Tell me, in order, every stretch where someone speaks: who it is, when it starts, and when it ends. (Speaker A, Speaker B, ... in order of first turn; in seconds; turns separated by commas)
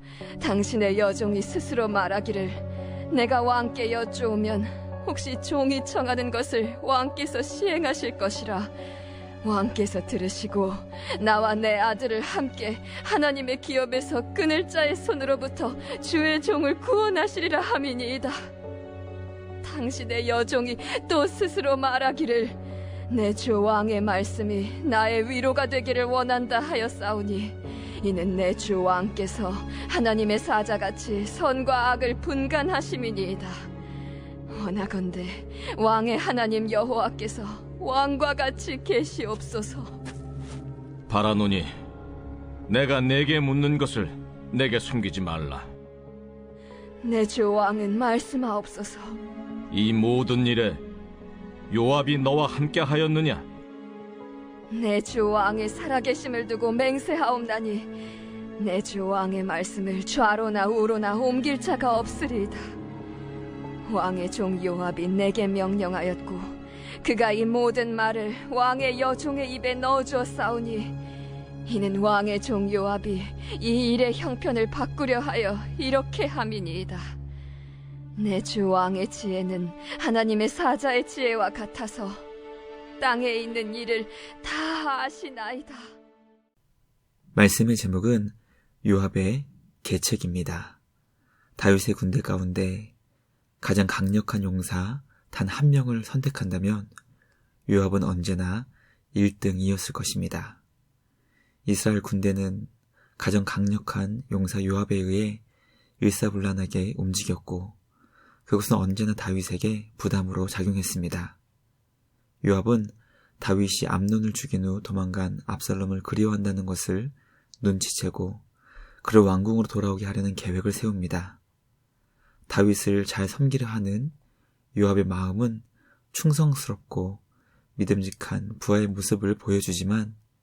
Speaker A: 0.4-8.7, Speaker A: 9.4-18.4, Speaker A: 19.6-22.6, Speaker A: 23.1-33.5, Speaker A: 34.5-40.0, Speaker B: 41.1-41.7, Speaker B: 42.7-45.7, Speaker A: 47.0-49.2, Speaker B: 49.7-50.8, Speaker B: 51.7-53.4, Speaker A: 54.7-57.9, Speaker A: 58.6-62.6, Speaker A: 63.8-70.9, Speaker A: 71.6-77.1, Speaker A: 78.2-82.2, Speaker A: 83.0-85.8, Speaker C: 87.3-90.8, Speaker C: 91.6-92.9, Speaker C: 93.6-96.9, Speaker C: 97.7-100.6, Speaker C: 101.7-105.4, Speaker C: 106.0-107.8, Speaker C: 108.5-111.4, Speaker C: 112.4-118.4, Speaker C: 119.0-121.4, Speaker C: 122.5-124.1, Speaker C: 124.7-127.2, Speaker C: 127.8-130.2